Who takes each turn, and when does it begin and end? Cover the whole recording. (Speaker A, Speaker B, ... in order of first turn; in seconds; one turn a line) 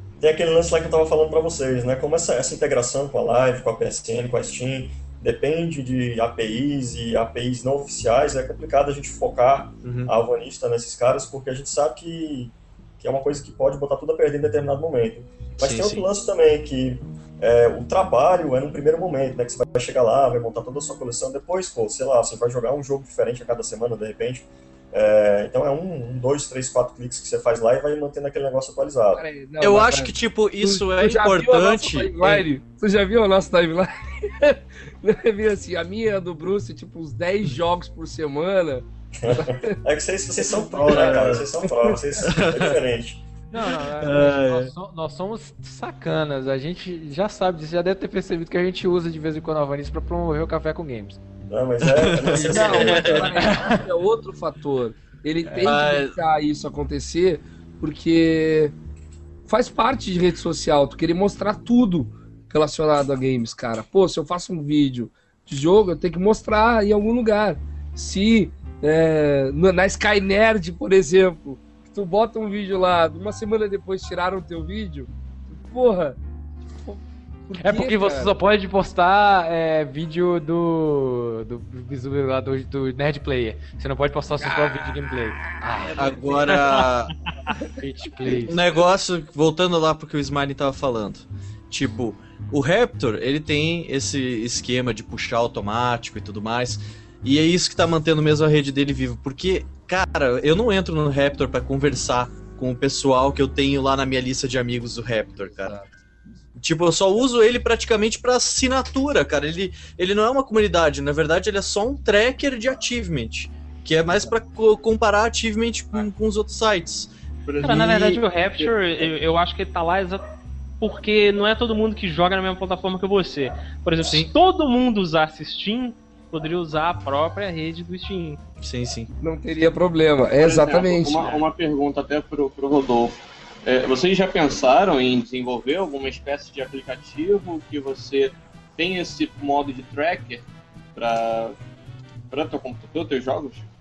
Speaker A: 0.2-29.2
Speaker B: 9.8-10.1
Speaker B: 15.6-16.1
Speaker C: 29.1-39.8
Speaker B: 29.6-32.5
Speaker A: 39.2-43.2
Speaker C: 40.5-41.0
Speaker B: 40.7-41.5
Speaker B: 42.2-42.8
Speaker D: 43.5-51.2
Speaker B: 44.0-44.7
Speaker A: 51.5-53.3
Speaker B: 52.0-53.2
Speaker C: 52.3-58.8
Speaker D: 53.3-53.8
Speaker B: 55.6-56.2
Speaker C: 59.5-76.2
Speaker C: 76.7-78.3
Speaker D: 77.6-86.0
Speaker C: 84.5-84.9
Speaker C: 85.7-86.6
Speaker B: 86.0-87.1
Speaker D: 87.8-88.6
Speaker B: 88.4-105.8
Speaker C: 105.5-105.9
Speaker B: 106.6-118.2
Speaker E: 117.6-120.2
Speaker E: 120.8-128.4
Speaker B: 124.0-124.3
Speaker B: 128.6-129.1
Speaker C: 129.2-131.3
Speaker F: 130.4-133.2
Speaker F: 133.7-141.6
Speaker F: 142.3-143.7